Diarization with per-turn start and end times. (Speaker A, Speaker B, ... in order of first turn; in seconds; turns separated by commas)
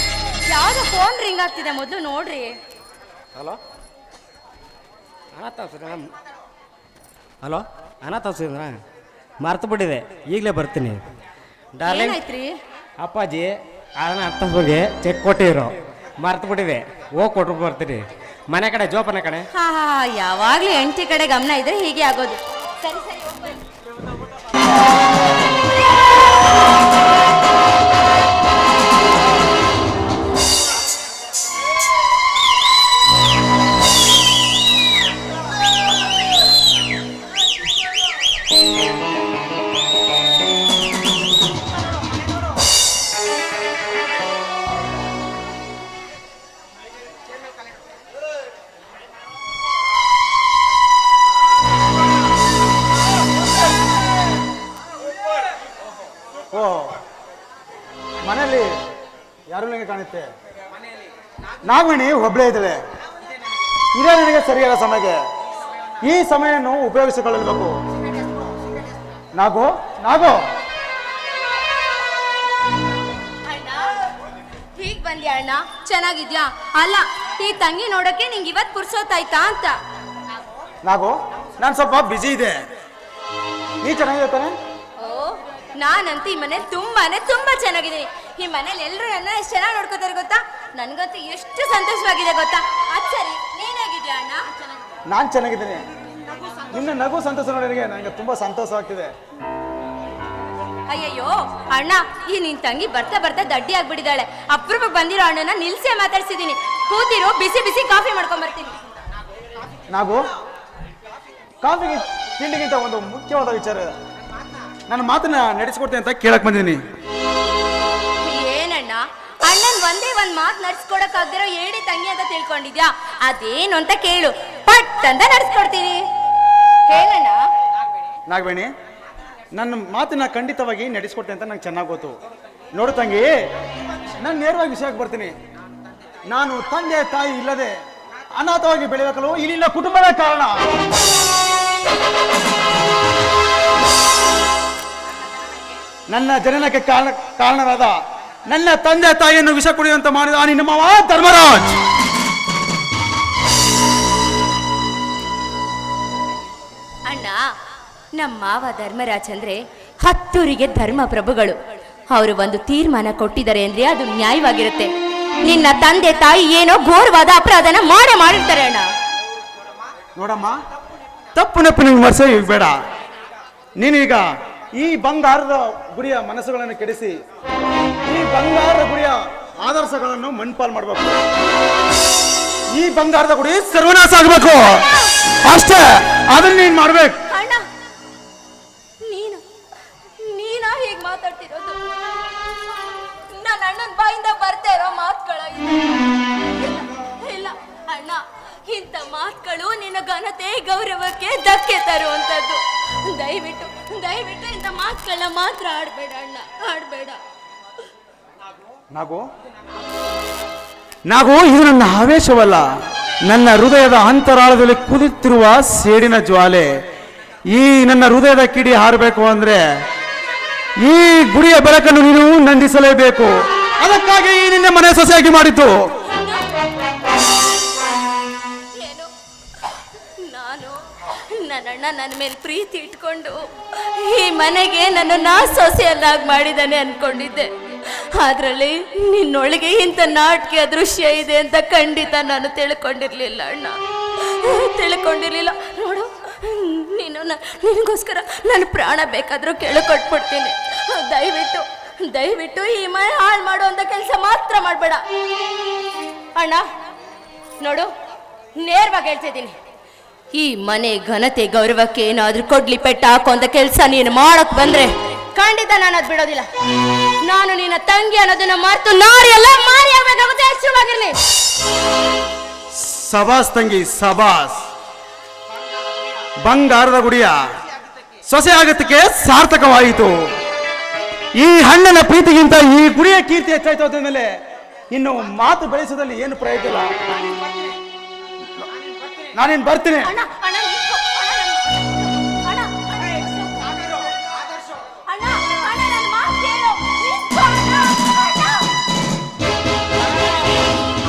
Speaker A: 0.5-2.5, Speaker B: 5.3-6.1, Speaker B: 7.4-8.8, Speaker B: 9.4-11.0, Speaker B: 11.7-12.2, Speaker A: 11.9-12.6, Speaker B: 13.0-19.5, Speaker A: 19.5-23.6, Speaker C: 56.5-57.0, Speaker C: 58.2-58.7, Speaker C: 59.5-60.3, Speaker C: 61.6-62.8, Speaker C: 64.0-65.2, Speaker C: 66.0-67.7, Speaker C: 69.3-70.4, Speaker A: 73.5-73.9, Speaker A: 74.8-79.8, Speaker C: 80.8-82.6, Speaker C: 83.8-84.5, Speaker A: 85.0-94.4, Speaker C: 95.1-95.8, Speaker C: 96.7-99.1, Speaker A: 100.9-108.8, Speaker C: 109.9-110.2, Speaker C: 111.6-113.9, Speaker C: 114.9-116.8, Speaker A: 118.2-126.0, Speaker A: 126.9-127.4, Speaker C: 128.3-128.7, Speaker C: 129.5-132.2, Speaker C: 132.7-133.3, Speaker C: 134.2-135.3, Speaker C: 136.3-137.7, Speaker C: 138.4-140.6, Speaker C: 146.1-148.0, Speaker C: 148.5-151.8, Speaker A: 157.1-157.4, Speaker A: 158.2-161.6, Speaker A: 162.1-164.9, Speaker A: 165.4-168.9, Speaker C: 170.2-170.6, Speaker C: 171.3-172.7, Speaker C: 173.8-177.2, Speaker C: 178.1-181.2, Speaker C: 182.7-184.8, Speaker A: 184.8-185.1, Speaker C: 185.4-187.2, Speaker A: 187.3-187.6, Speaker A: 189.0-189.4, Speaker A: 190.2-191.8, Speaker A: 193.2-195.9, Speaker A: 196.6-207.2, Speaker C: 208.9-209.2, Speaker C: 211.1-212.7, Speaker C: 213.2-216.8, Speaker C: 217.5-219.6, Speaker C: 220.8-225.7, Speaker A: 226.1-226.5, Speaker A: 228.8-229.1, Speaker A: 230.0-255.0, Speaker A: 256.4-256.6, Speaker A: 257.6-257.9, Speaker A: 258.6-259.6, Speaker A: 260.3-266.5, Speaker A: 267.2-271.2, Speaker C: 272.8-274.6, Speaker C: 276.4-277.4, Speaker C: 278.3-280.2, Speaker C: 281.4-284.3, Speaker C: 284.9-287.0, Speaker C: 289.3-290.1, Speaker A: 290.1-293.8, Speaker A: 295.1-298.7, Speaker A: 300.0-300.4